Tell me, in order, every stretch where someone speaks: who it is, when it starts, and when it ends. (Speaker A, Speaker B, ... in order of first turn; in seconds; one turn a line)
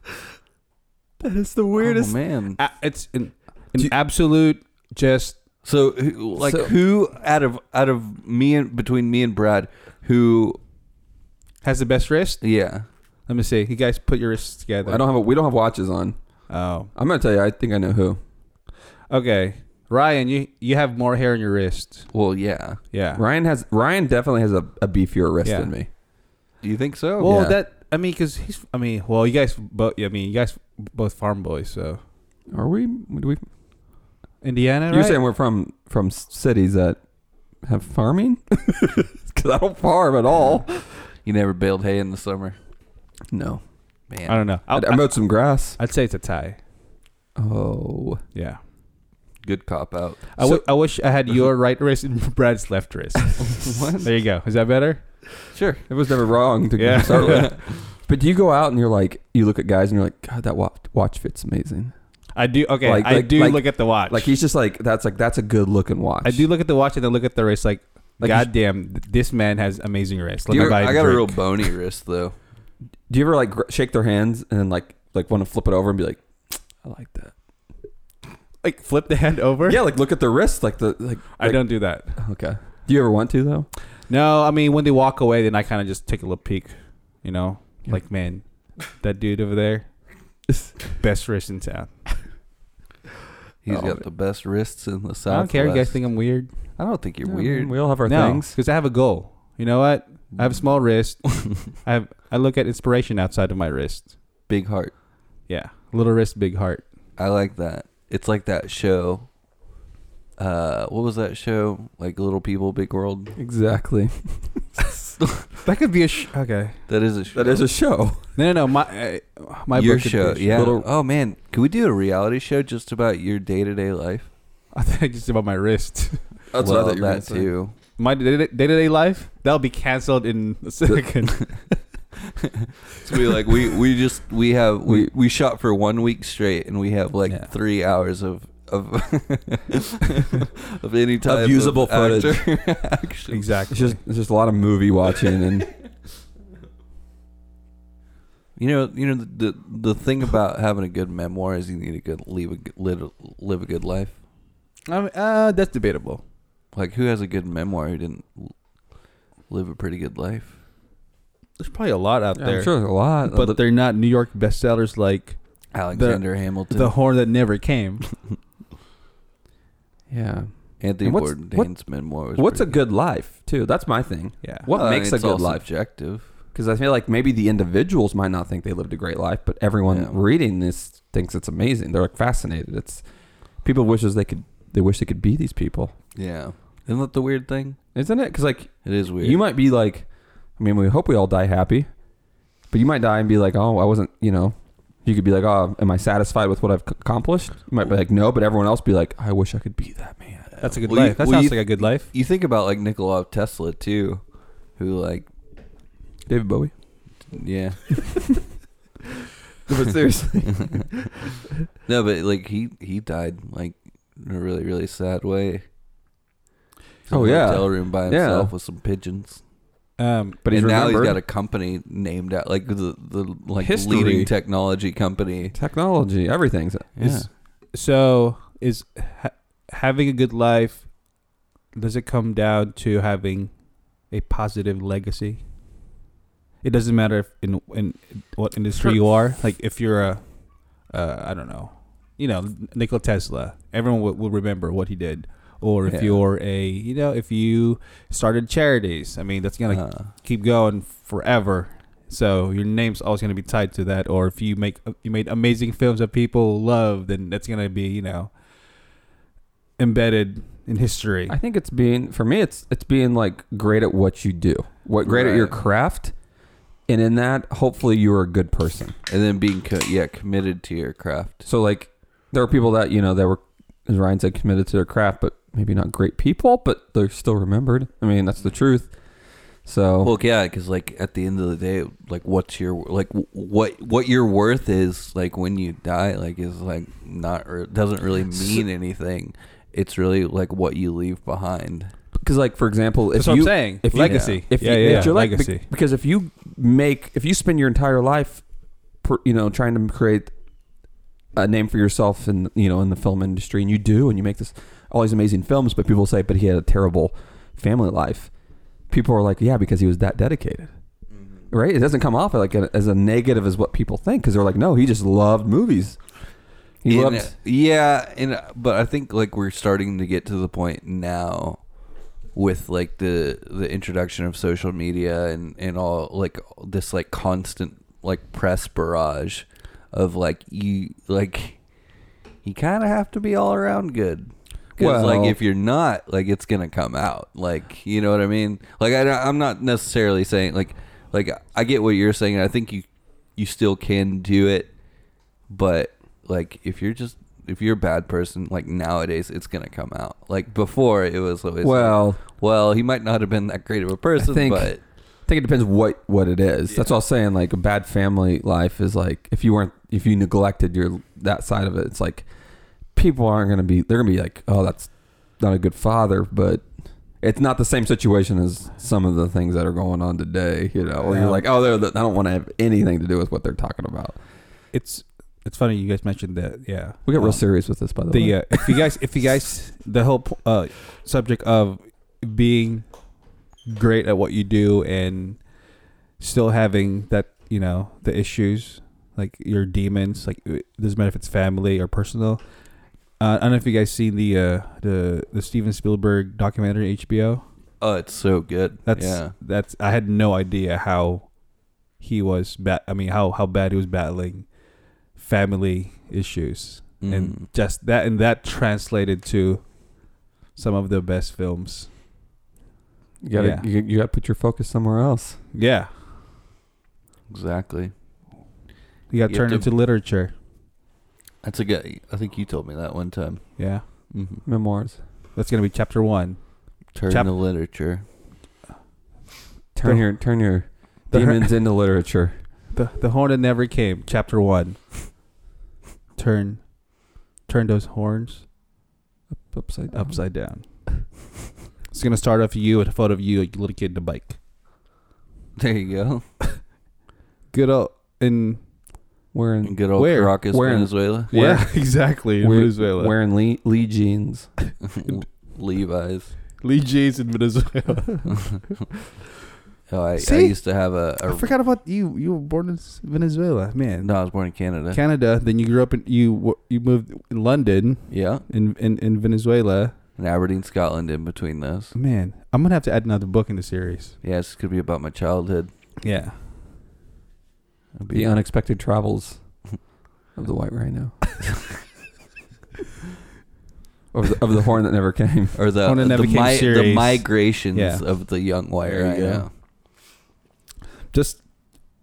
Speaker A: 1.2-2.1
Speaker B: 1.8-2.6
Speaker C: 2.6-5.4
Speaker B: 5.6-10.6
Speaker A: 6.4-6.7
Speaker C: 11.6-12.4
Speaker B: 12.4-12.9
Speaker C: 13.3-15.0
Speaker A: 14.8-16.2
Speaker C: 16.5-16.9
Speaker A: 16.9-18.2
Speaker C: 19.1-22.1
Speaker B: 22.1-22.8
Speaker C: 22.9-23.2
Speaker A: 23.1-25.9
Speaker C: 25.4-25.7
Speaker B: 26.6-27.4
Speaker C: 27.2-32.0
Speaker A: 27.2-27.6
Speaker A: 32.5-33.5
Speaker C: 34.4-35.2
Speaker A: 34.9-37.0
Speaker A: 37.6-40.9
Speaker B: 41.2-42.6
Speaker A: 43.3-43.6
Speaker B: 44.1-44.4
Speaker C: 44.3-45.2
Speaker A: 44.7-45.8
Speaker C: 45.8-46.6
Speaker A: 47.4-48.2
Speaker B: 49.4-50.4
Speaker C: 50.4-55.2
Speaker B: 53.5-54.1
Speaker B: 55.5-55.8
Speaker A: 55.9-61.9
Speaker C: 56.8-57.5
Speaker B: 57.3-57.6
Speaker C: 62.4-64.3
Speaker A: 62.8-66.5
Speaker C: 66.2-71.4
Speaker A: 68.2-68.5
Speaker B: 70.5-72.3
Speaker A: 73.1-77.3
Speaker C: 78.6-79.8
Speaker A: 79.7-83.7
Speaker C: 81.4-82.1
Speaker C: 84.1-89.9
Speaker C: 91.0-92.1
Speaker B: 93.6-96.1
Speaker A: 93.7-94.0
Speaker C: 95.3-96.5
Speaker B: 96.7-97.7
Speaker A: 97.2-98.5
Speaker C: 98.0-104.1
Speaker B: 104.5-104.9
Speaker C: 105.5-106.8
Speaker B: 107.2-109.3
Speaker B: 110.4-113.4
Speaker A: 113.4-114.9
Speaker B: 115.2-115.5
Speaker C: 115.6-116.8
Speaker B: 116.9-117.7
Speaker A: 117.3-118.3
Speaker C: 118.4-120.7
Speaker B: 119.7-124.3
Speaker A: 120.5-120.9
Speaker C: 124.7-126.3
Speaker A: 126.5-127.5
Speaker B: 126.6-127.8
Speaker C: 128.0-131.5
Speaker B: 132.4-143.5
Speaker A: 141.2-142.7
Speaker C: 143.3-144.0
Speaker A: 143.7-145.7
Speaker B: 148.6-154.2
Speaker C: 154.9-156.2
Speaker B: 156.7-158.5
Speaker B: 159.5-160.6
Speaker C: 161.6-168.1
Speaker A: 162.4-163.6
Speaker B: 165.7-167.0
Speaker A: 170.1-175.6
Speaker B: 170.8-172.8
Speaker C: 174.4-174.7
Speaker B: 174.7-176.3
Speaker A: 176.5-183.0
Speaker B: 179.9-180.2
Speaker A: 183.6-185.9
Speaker B: 186.2-187.8
Speaker A: 187.9-190.1
Speaker B: 188.8-189.4
Speaker A: 190.6-191.9
Speaker A: 192.7-200.5
Speaker B: 200.5-204.2
Speaker C: 200.6-202.1
Speaker B: 204.8-205.3
Speaker A: 206.3-206.7
Speaker B: 207.3-207.8
Speaker A: 209.7-211.0
Speaker B: 211.9-215.6
Speaker B: 217.1-219.4
Speaker A: 217.1-218.5
Speaker C: 220.0-220.4
Speaker A: 220.4-221.2
Speaker B: 220.5-225.5
Speaker A: 223.6-224.3
Speaker A: 225.5-227.3
Speaker B: 227.0-227.3
Speaker C: 227.7-230.9
Speaker C: 231.7-233.6
Speaker C: 234.1-235.4
Speaker C: 236.6-258.3
Speaker B: 245.9-246.2
Speaker B: 249.7-250.1
Speaker C: 259.8-261.4
Speaker A: 261.3-266.1
Speaker B: 265.1-265.5
Speaker A: 266.9-268.9
Speaker B: 269.1-271.5
Speaker A: 271.5-278.9
Speaker A: 279.6-280.1
Speaker B: 280.0-291.9
Speaker A: 292.2-298.4
Speaker C: 293.1-295.6
Speaker B: 294.0-295.1
Speaker A: 299.0-300.3
Speaker A: 301.4-308.3
Speaker A: 308.9-310.7
Speaker B: 311.1-311.4
Speaker A: 311.5-316.0
Speaker A: 316.8-317.3
Speaker B: 316.9-321.6
Speaker B: 322.3-331.6
Speaker B: 332.4-344.7
Speaker A: 334.8-335.4
Speaker B: 345.5-354.8
Speaker A: 351.6-352.2
Speaker A: 354.2-354.7
Speaker A: 355.3-362.3
Speaker A: 362.9-366.7
Speaker A: 367.2-374.2
Speaker C: 371.1-371.4
Speaker C: 374.7-382.9
Speaker A: 377.1-378.8
Speaker C: 383.7-385.4
Speaker C: 386.2-392.4
Speaker C: 393.2-397.4
Speaker B: 397.8-399.3
Speaker C: 398.9-401.4
Speaker C: 402.0-404.5
Speaker C: 405.1-409.8
Speaker B: 407.0-407.5
Speaker C: 410.5-411.9
Speaker A: 413.2-415.4
Speaker C: 413.4-413.7
Speaker C: 415.5-415.9
Speaker B: 417.3-417.9
Speaker C: 419.1-420.3
Speaker B: 419.3-419.7
Speaker B: 421.4-424.4
Speaker C: 423.6-424.1
Speaker A: 424.4-425.0
Speaker C: 425.4-426.4
Speaker B: 426.9-428.0
Speaker C: 427.0-427.3
Speaker A: 429.7-432.4
Speaker C: 429.8-430.1
Speaker C: 431.1-431.6
Speaker C: 432.7-435.1
Speaker C: 436.2-436.8
Speaker C: 437.4-438.5
Speaker A: 439.5-440.2
Speaker C: 439.9-440.7
Speaker C: 441.9-444.4
Speaker B: 445.6-446.2
Speaker C: 447.5-448.6
Speaker A: 449.3-454.5
Speaker B: 449.6-451.3
Speaker C: 450.0-450.4
Speaker C: 451.3-453.1
Speaker B: 454.8-456.4
Speaker C: 456.6-458.6
Speaker B: 459.9-461.5
Speaker C: 460.2-460.6
Speaker C: 461.3-464.1
Speaker B: 464.0-465.0
Speaker C: 464.9-469.9
Speaker B: 468.1-468.4
Speaker B: 470.2-471.9
Speaker C: 471.9-474.2
Speaker B: 474.2-475.7
Speaker C: 476.0-476.4
Speaker B: 478.0-478.4
Speaker A: 478.1-479.6
Speaker A: 480.4-481.2
Speaker A: 484.1-485.6
Speaker B: 485.6-489.5
Speaker C: 485.8-488.0
Speaker A: 488.9-489.5
Speaker C: 491.1-491.5